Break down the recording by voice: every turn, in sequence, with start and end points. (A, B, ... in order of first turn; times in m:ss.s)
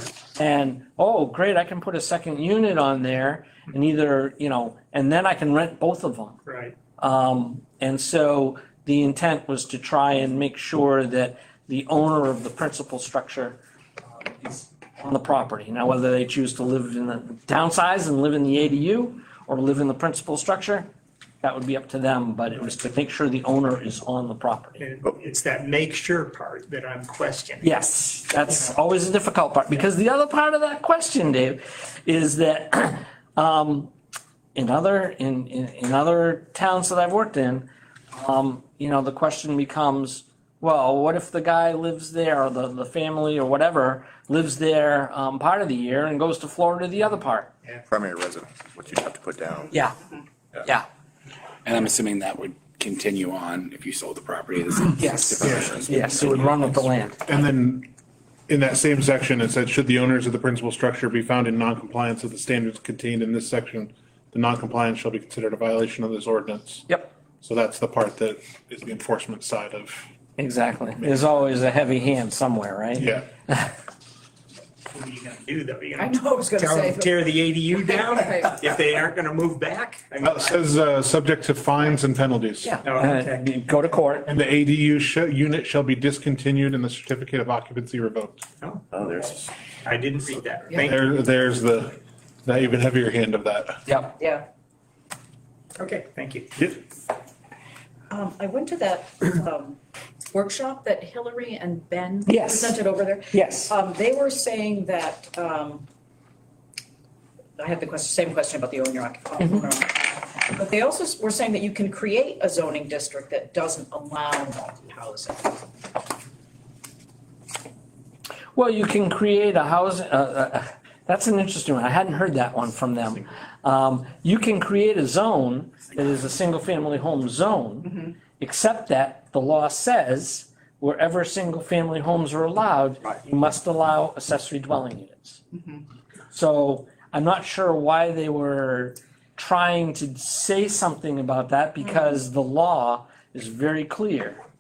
0:00.4-0:06.4 A
0:06.5-0:06.8 B
0:07.0-0:13.6 A
0:14.2-0:20.9 A
0:21.4-0:24.8 A
0:24.8-0:27.7 B
0:27.6-0:33.9 A
0:34.6-0:47.5 A
0:47.9-0:49.7 C
0:49.7-0:50.0 A
0:51.6-0:57.0 D
0:55.0-0:57.4 A
0:55.4-0:55.7 E
0:57.3-0:57.9 E
0:58.5-1:06.9 E
1:07.4-1:10.1 E
1:10.4-1:13.7 A
1:13.0-1:13.3 E
1:14.9-1:20.7 B
1:16.0-1:17.2 F
1:17.7-1:18.6 F
1:20.2-1:22.8 E
1:22.8-1:23.4 B
1:22.8-1:24.3 A
1:24.3-1:28.5 E
1:28.6-1:31.0 B
1:29.0-1:29.4 C
1:30.8-1:33.8 E
1:33.9-1:34.1 A
1:34.2-1:34.5 F
1:35.8-1:36.7 B
1:38.1-1:39.8 F
1:40.3-1:45.9 F
1:42.3-1:42.8 A
1:43.3-1:43.7 A
1:47.6-1:55.6 F
1:58.6-2:15.4 A
2:16.3-2:24.4 A